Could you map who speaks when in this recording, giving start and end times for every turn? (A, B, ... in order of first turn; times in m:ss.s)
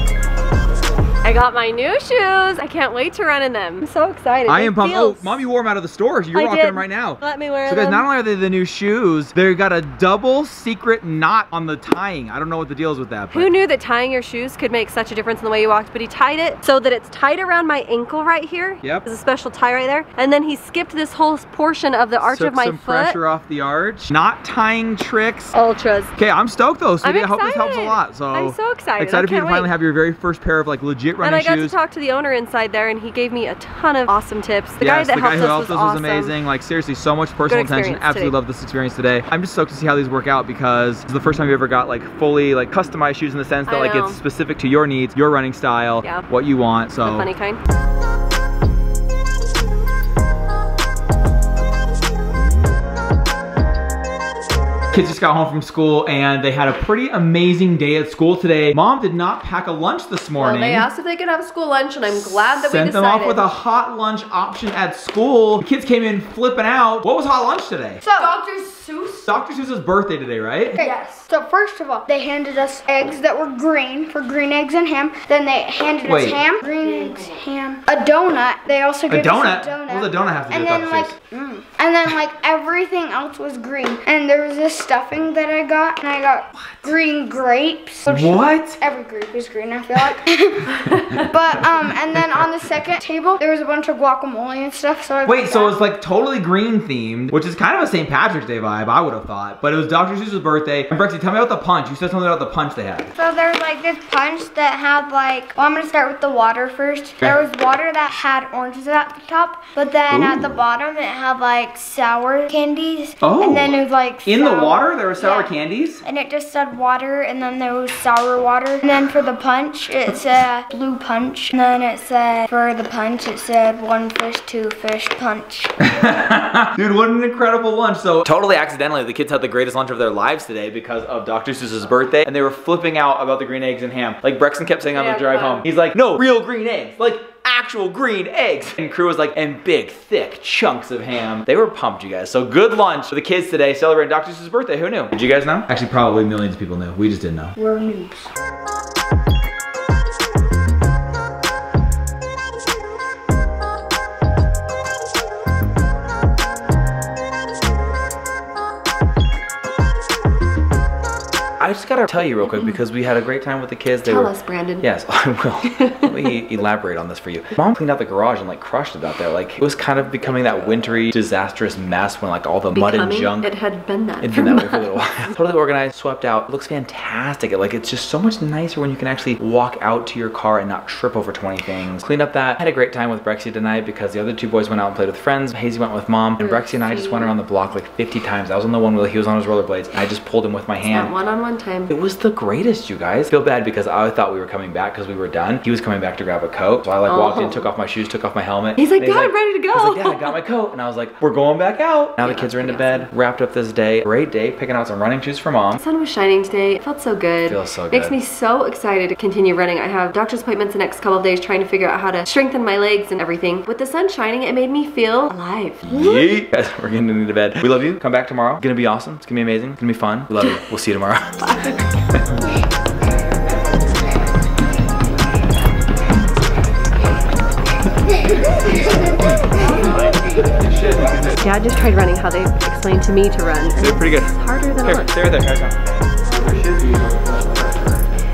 0:01.2-0:05.4 A
0:04.5-0:13.5 B
0:06.3-0:08.0 A
0:13.3-0:23.2 A
0:22.2-0:25.6 B
0:25.5-0:26.1 A
0:26.2-0:31.7 B
0:27.0-0:29.7 A
0:31.2-0:36.3 A
0:34.8-0:47.3 B
0:37.5-0:38.3 A
0:43.7-0:44.2 A
0:47.0-0:47.6 A
0:54.9-1:00.9 B
1:00.4-1:03.4 A
1:02.0-1:08.0 B
1:08.0-1:09.0 C
1:09.2-1:10.8 B
1:10.8-1:35.8 C
1:16.0-1:16.4 B
1:16.8-1:17.4 A
1:19.1-1:21.1 B
1:26.5-1:26.9 B
1:28.0-1:28.8 B
1:30.8-1:31.2 A
1:32.1-1:32.4 B
1:35.2-1:43.1 B
1:43.1-2:05.7 C
1:50.1-1:50.6 B
1:53.2-1:56.0 B
2:05.8-2:27.6 B
2:14.9-2:15.6 A
2:27.6-2:28.3 C
2:41.6-2:53.5 B
2:42.4-2:42.8 A
2:44.0-2:44.9 A
2:45.6-2:46.3 A
2:52.7-2:55.3 A
2:54.2-3:11.1 B
3:06.4-3:07.3 A
3:10.8-3:11.9 A
3:11.9-3:25.8 B
3:17.0-3:17.7 A
3:18.8-3:20.3 A
3:22.2-3:23.1 A
3:25.8-3:36.4 A
3:27.4-3:28.2 B
3:35.8-3:41.5 B
3:41.4-3:41.8 A
3:42.1-3:42.4 B
3:50.4-3:51.3 B
3:51.4-3:55.1 A
3:53.8-3:58.0 B